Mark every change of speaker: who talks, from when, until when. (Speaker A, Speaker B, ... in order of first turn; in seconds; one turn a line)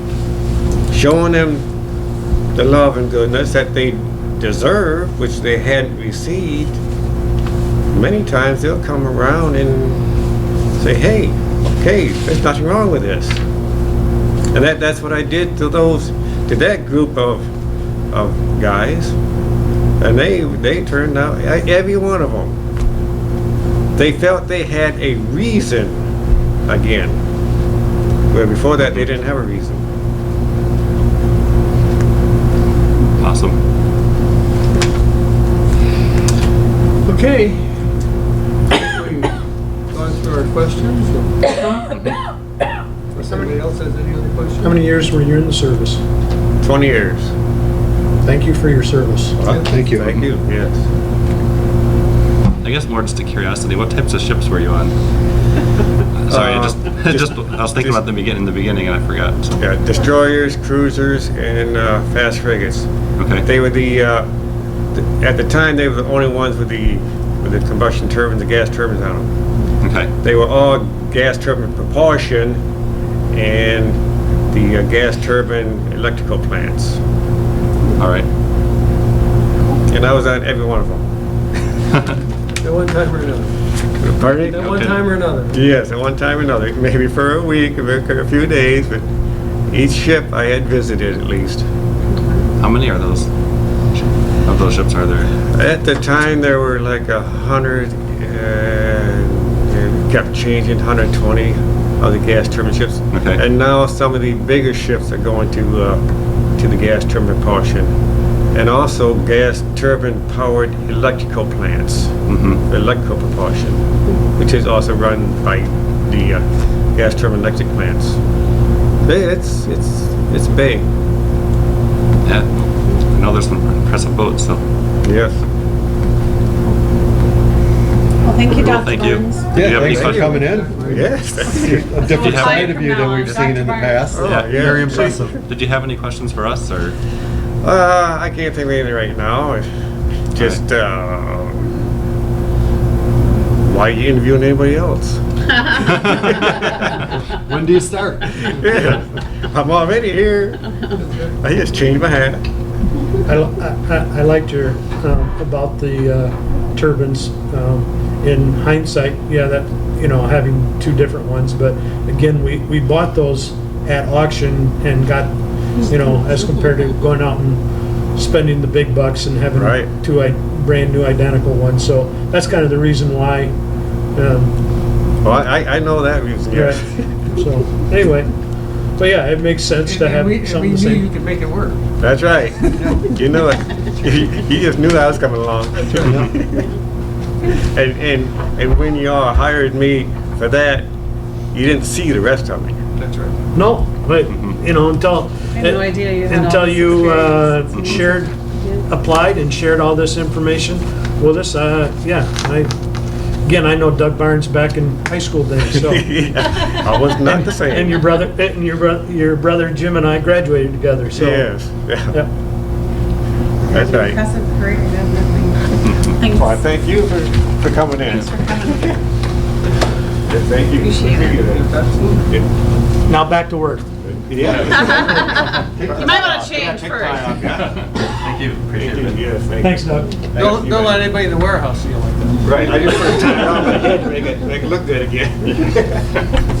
Speaker A: 0.9-1.6
Speaker A: 2.5-6.8
Speaker A: 7.9-10.0
Speaker A: 10.8-13.4
Speaker A: 14.5-17.5
Speaker A: 18.1-19.1
Speaker A: 20.0-22.5
Speaker A: 23.9-26.1
Speaker A: 26.7-27.2
Speaker A: 28.3-29.8
Speaker B: 33.2-33.6
Speaker C: 37.1-37.6
Speaker C: 38.7-39.3
Speaker C: 39.9-41.4
Speaker C: 43.1-44.7
Speaker D: 44.6-46.0
Speaker A: 46.6-47.3
Speaker D: 48.2-49.4
Speaker A: 49.4-50.8
Speaker E: 49.6-50.2
Speaker B: 52.6-54.9
Speaker B: 56.2-59.6
Speaker A: 56.3-58.0
Speaker A: 59.6-62.9
Speaker B: 63.2-63.5
Speaker A: 63.4-64.3
Speaker A: 64.9-69.3
Speaker B: 69.8-70.1
Speaker A: 70.2-72.6
Speaker A: 73.3-77.0
Speaker B: 78.0-78.3
Speaker A: 79.9-81.0
Speaker C: 82.6-83.5
Speaker A: 84.0-89.1
Speaker C: 84.4-85.6
Speaker B: 84.7-85.1
Speaker A: 89.7-91.7
Speaker B: 92.6-93.3
Speaker B: 93.9-95.3
Speaker A: 95.4-106.0
Speaker B: 103.1-103.4
Speaker A: 106.6-107.9
Speaker A: 108.5-112.1
Speaker B: 112.3-112.6
Speaker A: 112.7-113.8
Speaker A: 114.3-116.4
Speaker A: 116.9-118.2
Speaker A: 119.0-120.8
Speaker B: 122.2-124.6
Speaker A: 125.0-125.4
Speaker F: 128.2-129.6
Speaker B: 128.5-130.5
Speaker E: 129.5-130.9
Speaker A: 129.7-130.3
Speaker C: 130.3-131.3
Speaker A: 130.8-132.0
Speaker E: 131.5-135.4
Speaker F: 131.7-134.2
Speaker B: 132.1-133.5
Speaker A: 134.1-135.3
Speaker B: 134.2-137.0
Speaker A: 137.6-139.6
Speaker A: 140.3-141.7
Speaker A: 143.6-146.9
Speaker E: 147.3-148.9
Speaker A: 148.3-150.7
Speaker C: 151.0-151.3
Speaker A: 151.4-152.4
Speaker D: 153.2-167.6
Speaker D: 168.1-173.5
Speaker A: 169.5-169.9
Speaker D: 174.1-174.5
Speaker A: 175.2-176.8
Speaker D: 176.5-178.3
Speaker D: 179.0-181.1
Speaker C: 179.8-181.8
Speaker A: 182.0-186.6
Speaker C: 182.6-183.1
Speaker C: 185.9-186.2
Speaker A: 187.7-190.9
Speaker A: 191.5-192.8
Speaker C: 193.0-193.3
Speaker D: 193.5-202.7
Speaker F: 195.5-197.6
Speaker B: 197.7-198.0
Speaker D: 203.4-206.2
Speaker A: 205.6-208.2
Speaker D: 207.2-211.5
Speaker A: 211.1-212.2
Speaker F: 213.7-216.6
Speaker A: 213.7-214.2
Speaker A: 216.3-219.0
Speaker F: 218.2-218.9
Speaker A: 220.3-221.7
Speaker F: 220.8-221.3
Speaker C: 221.2-222.3
Speaker D: 223.1-223.8
Speaker A: 224.0-227.9
Speaker B: 224.4-224.9
Speaker F: 224.8-227.5
Speaker B: 227.3-229.2
Speaker A: 228.7-231.1
Speaker D: 229.6-230.2
Speaker C: 230.3-232.6
Speaker A: 232.4-236.1
Speaker C: 233.2-233.5